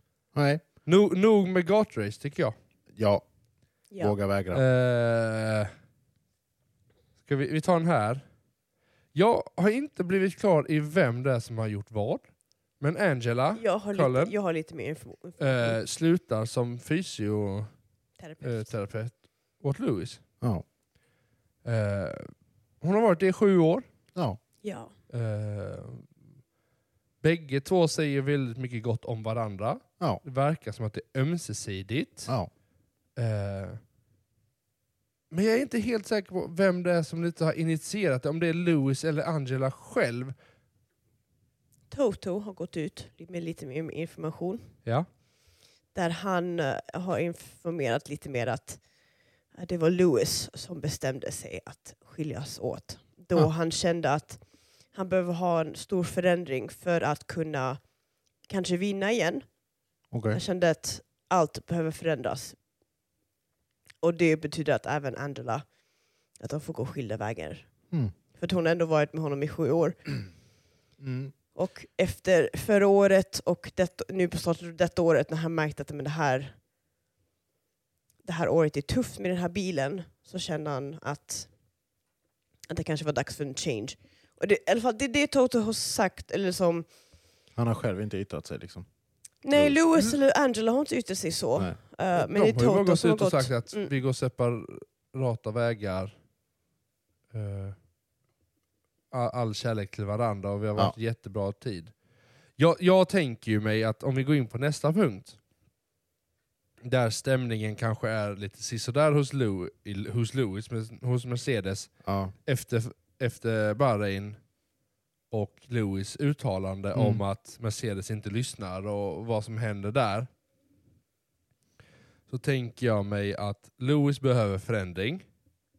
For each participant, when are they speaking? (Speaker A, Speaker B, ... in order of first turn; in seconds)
Speaker A: 0.3-0.6, 2.9-3.2, 4.0-4.6, 60.1-60.4, 71.0-71.3, 87.5-88.9, 89.5-89.8, 112.0-112.3, 116.9-117.2
Speaker B: 0.8-2.5, 4.5-5.7, 7.2-8.2, 9.1-12.2, 12.8-14.3, 15.4-17.7, 18.4-20.2, 21.6-23.9, 25.1-26.1, 27.2-32.3, 33.2-33.8, 35.3-40.3, 92.2-96.1, 97.3-97.8, 99.1-101.9, 102.6-105.4, 106.8-111.9, 112.5-114.4, 115.3-120.3, 122.3-125.2
Speaker C: 13.6-15.8, 18.2-18.7, 24.6-24.9, 41.9-44.6, 45.9-48.8, 49.5-57.8, 58.5-59.4, 60.3-62.6, 64.0-65.7, 66.4-67.7, 68.3-70.0, 71.5-76.6, 78.2-81.5, 82.7-86.8, 89.4-93.9